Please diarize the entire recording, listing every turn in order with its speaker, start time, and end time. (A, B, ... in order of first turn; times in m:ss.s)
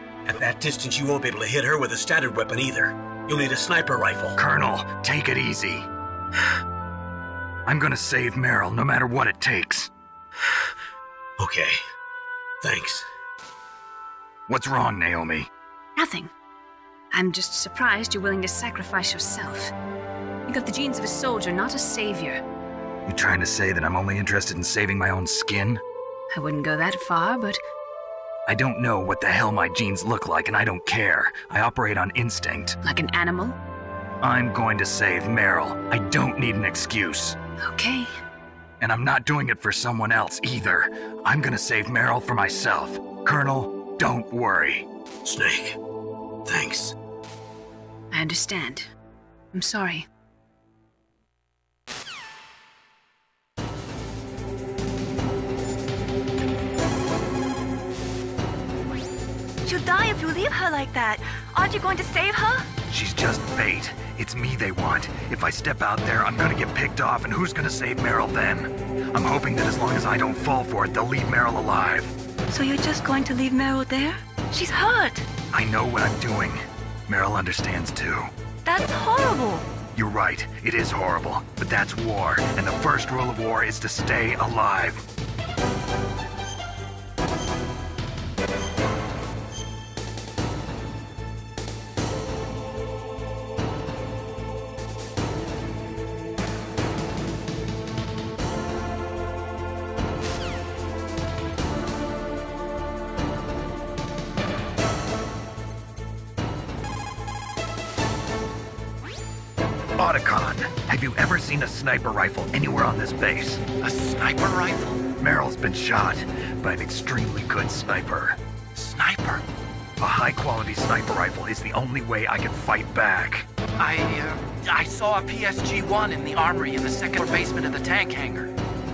0:00.2-0:04.4 A
0:04.4-0:05.9 B
0:07.7-0:09.9 B
0:11.4-0:11.8 A
0:12.6-0:13.1 A
0:14.5-0:15.5 B
0:16.0-0:16.3 C
0:17.1-0:19.7 C
0:20.5-0:22.4 C
0:23.0-0:25.8 B
0:26.3-0:27.6 C
0:28.5-0:32.8 B
0:32.8-0:33.6 C
0:34.2-0:37.4 B
0:37.6-0:38.2 C
0:38.8-0:44.9 B
0:45.2-0:45.8 A
0:46.5-0:47.0 A
0:48.1-0:48.9 C
0:49.5-0:50.1 C
0:59.6-1:02.7 D
1:02.9-1:12.2 B
1:12.5-1:15.3 D
1:15.5-1:18.3 B
1:18.6-1:19.7 D
1:19.9-1:25.1 B
1:50.0-1:53.6 B
1:53.8-1:55.0 E
1:55.2-1:58.4 B
1:58.8-1:59.4 E
2:00.0-2:03.5 B
2:03.8-2:08.5 E